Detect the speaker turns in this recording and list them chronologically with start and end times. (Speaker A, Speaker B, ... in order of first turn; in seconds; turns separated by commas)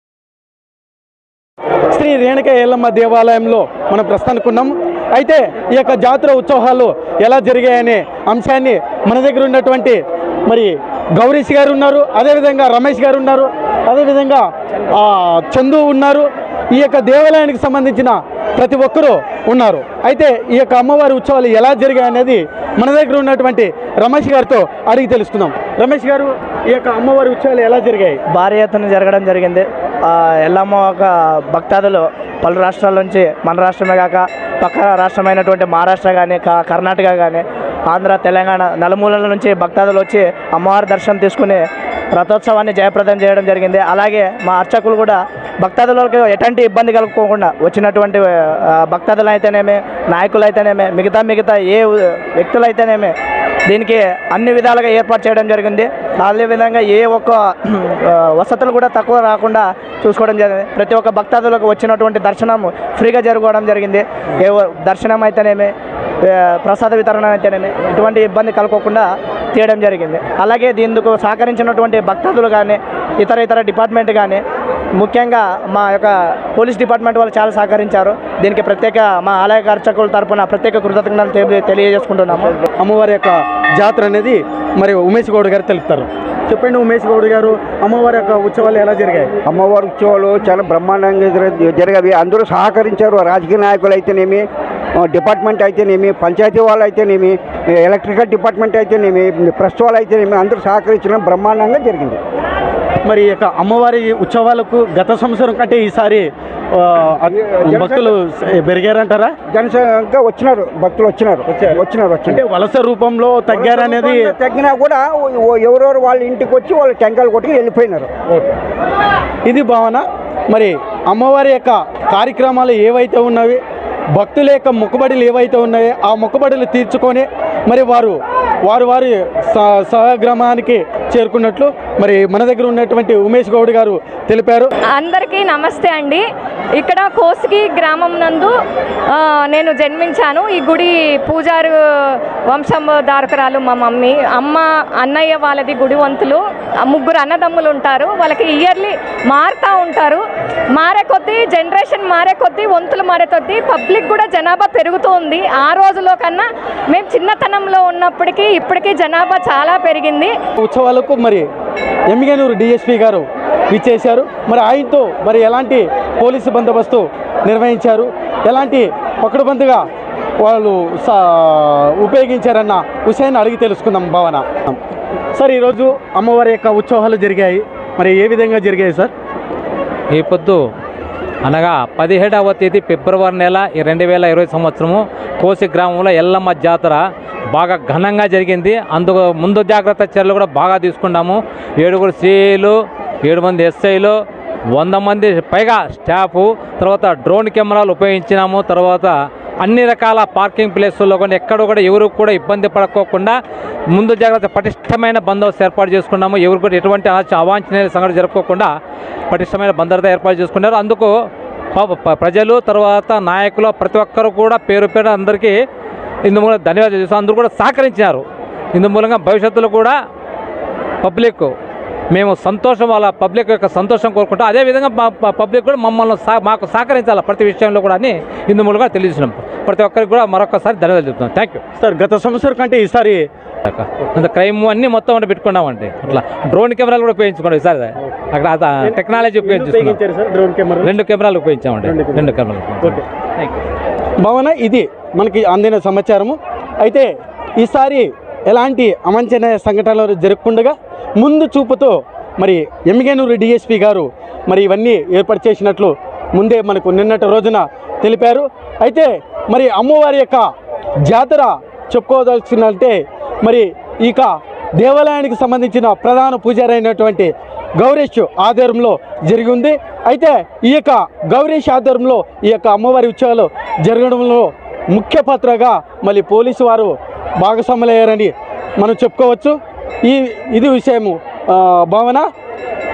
Speaker A: 1.9-28.2, Speaker B: 28.3-41.6, Speaker B: 42.1-53.1, Speaker B: 53.7-65.7, Speaker B: 66.2-74.4, Speaker B: 75.0-82.6, Speaker A: 82.8-89.3, Speaker C: 89.5-94.5, Speaker C: 95.0-102.2, Speaker A: 103.0-109.4, Speaker C: 107.3-108.1, Speaker C: 109.5-112.4, Speaker A: 111.5-114.3, Speaker C: 113.5-118.1, Speaker A: 119.5-123.6, Speaker A: 124.1-134.7, Speaker D: 134.9-136.2, Speaker D: 136.8-138.6, Speaker D: 139.1-160.4, Speaker A: 160.6-161.5, Speaker A: 162.1-169.9, Speaker A: 170.4-174.8, Speaker A: 175.3-179.1, Speaker E: 180.1-180.6, Speaker E: 181.4-194.2, Speaker E: 194.8-199.1, Speaker E: 199.6-203.4, Speaker E: 203.9-208.7, Speaker E: 209.3-211.1, Speaker E: 211.8-215.6, Speaker E: 216.2-220.0, Speaker E: 221.0-221.5, Speaker E: 222.1-231.6, Speaker A: 231.8-233.3, Speaker E: 233.7-240.0, Speaker A: 238.8-240.9, Speaker E: 240.8-243.6, Speaker A: 241.8-242.3, Speaker A: 244.2-260.5, Speaker A: 261.0-282.3